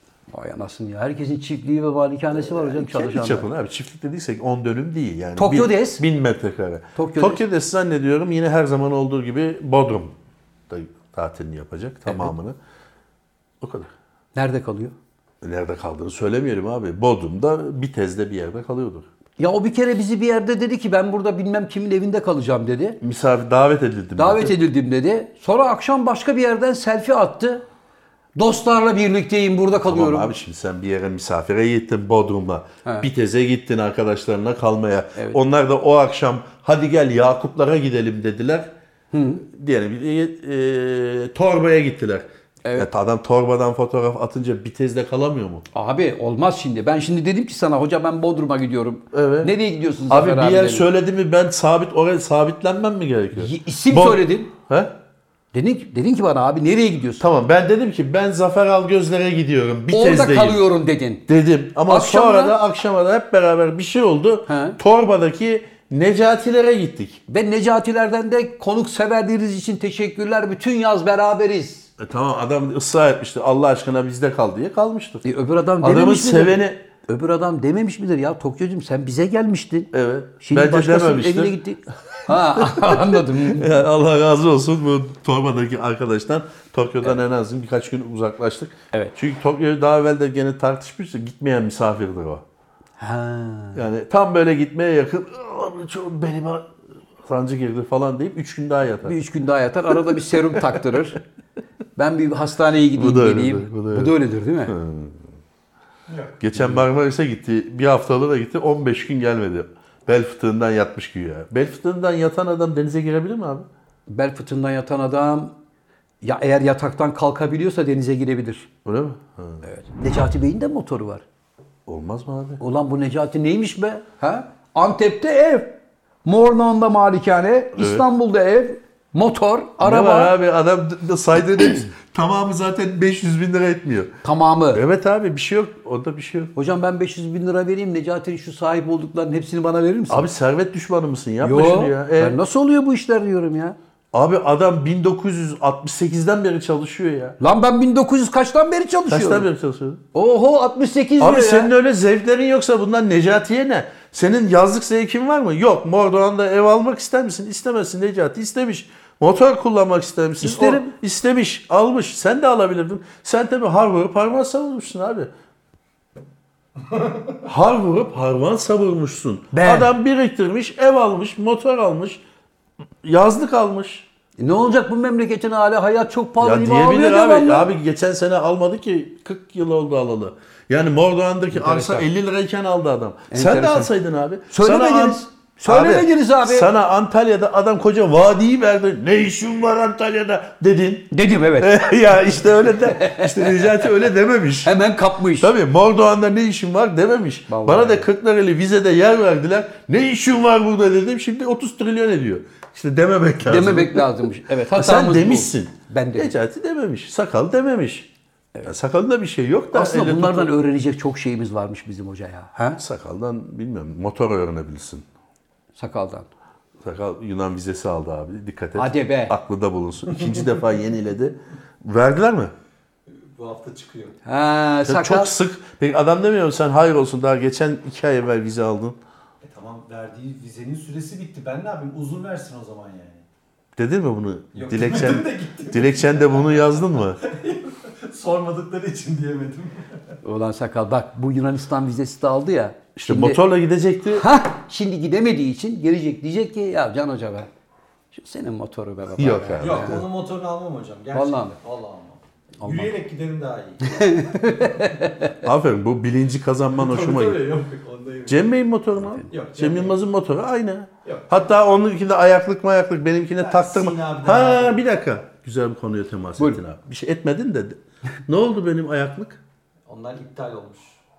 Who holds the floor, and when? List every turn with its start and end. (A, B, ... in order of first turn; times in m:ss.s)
0:00.3-0:03.5 A
0:02.4-0:10.1 B
0:05.4-0:06.0 A
0:07.0-0:07.4 A
0:10.7-0:12.6 B
0:12.0-0:12.3 A
0:13.6-0:13.9 B
0:14.3-0:14.9 A
0:15.4-0:19.1 B
0:19.4-0:23.0 A
0:23.0-0:24.5 B
0:24.2-0:27.6 A
0:28.4-0:30.3 A
0:29.7-0:38.7 B
0:39.1-0:39.4 A
0:39.4-0:45.6 B
0:45.7-0:50.9 A
0:49.1-0:49.5 B
0:50.1-0:54.9 B
0:53.4-0:54.5 A
0:55.5-0:57.2 A
0:57.2-1:00.6 B
0:59.9-1:01.2 A
1:01.3-1:07.2 B
1:01.9-1:02.5 A
1:04.5-1:04.8 A
1:07.3-1:11.9 A
1:12.0-1:15.2 B
1:15.2-1:23.8 A
1:15.8-1:16.8 B
1:19.9-1:21.6 B
1:22.2-1:32.4 B
1:33.0-1:33.8 A
1:33.7-1:36.7 B
1:37.2-1:39.2 B
1:39.0-1:41.2 A
1:40.4-1:41.0 B
1:42.0-1:44.8 A
1:42.9-1:44.1 B
1:44.7-1:45.3 B
1:46.1-1:46.4 C
1:46.4-1:53.7 B
1:54.1-1:55.5 A
1:56.2-1:58.7 A
1:58.8-1:59.6 B
1:59.6-2:01.2 A
2:01.8-2:02.6 B
2:02.6-2:05.7 A
2:06.2-2:10.3 A
2:07.8-2:08.0 B
2:09.8-2:14.1 B
2:14.2-2:14.8 A
2:14.7-2:16.5 B
2:16.5-2:20.3 A
2:20.1-2:22.4 B
2:21.4-2:23.8 A
2:24.1-2:27.4 B
2:27.4-2:29.5 A
2:29.1-2:30.0 B
2:30.1-2:31.7 A
2:31.2-2:45.3 B
2:40.4-2:40.9 A
2:47.4-2:52.2 B
2:49.5-2:49.9 A
2:53.0-2:54.1 B
2:54.4-2:57.7 A
2:56.4-3:14.7 B
3:01.5-3:02.1 A
3:03.3-3:03.9 A
3:04.5-3:06.7 A
3:11.1-3:12.0 A
3:12.6-3:13.8 A
3:14.6-3:15.5 A
3:15.4-3:24.1 B
3:17.5-3:18.1 A
3:23.4-3:26.3 A
3:24.7-3:28.1 B
3:28.6-3:30.5 B
3:29.7-3:32.8 A
3:32.8-3:35.0 B
3:35.8-3:36.3 A
3:36.8-3:42.5 B
3:38.8-3:39.3 A
3:40.2-3:40.6 C
3:43.4-3:44.2 C
3:44.2-3:45.3 A
3:44.8-3:49.0 B
3:49.4-3:53.2 C
3:53.8-3:57.2 B
3:54.5-4:00.0 C
4:00.2-4:03.4 A
4:03.0-4:04.3 B
4:04.1-4:07.5 A
4:08.1-4:10.0 A
4:09.2-4:10.0 B
4:09.6-4:14.9 C
4:11.1-4:11.6 A
4:12.6-4:12.9 A
4:13.8-4:15.3 A
4:15.4-4:17.5 B
4:16.8-4:18.5 C
4:18.3-4:29.4 B
4:19.3-4:20.0 C
4:21.0-4:21.4 C
4:23.4-4:24.8 C
4:29.9-4:31.0 C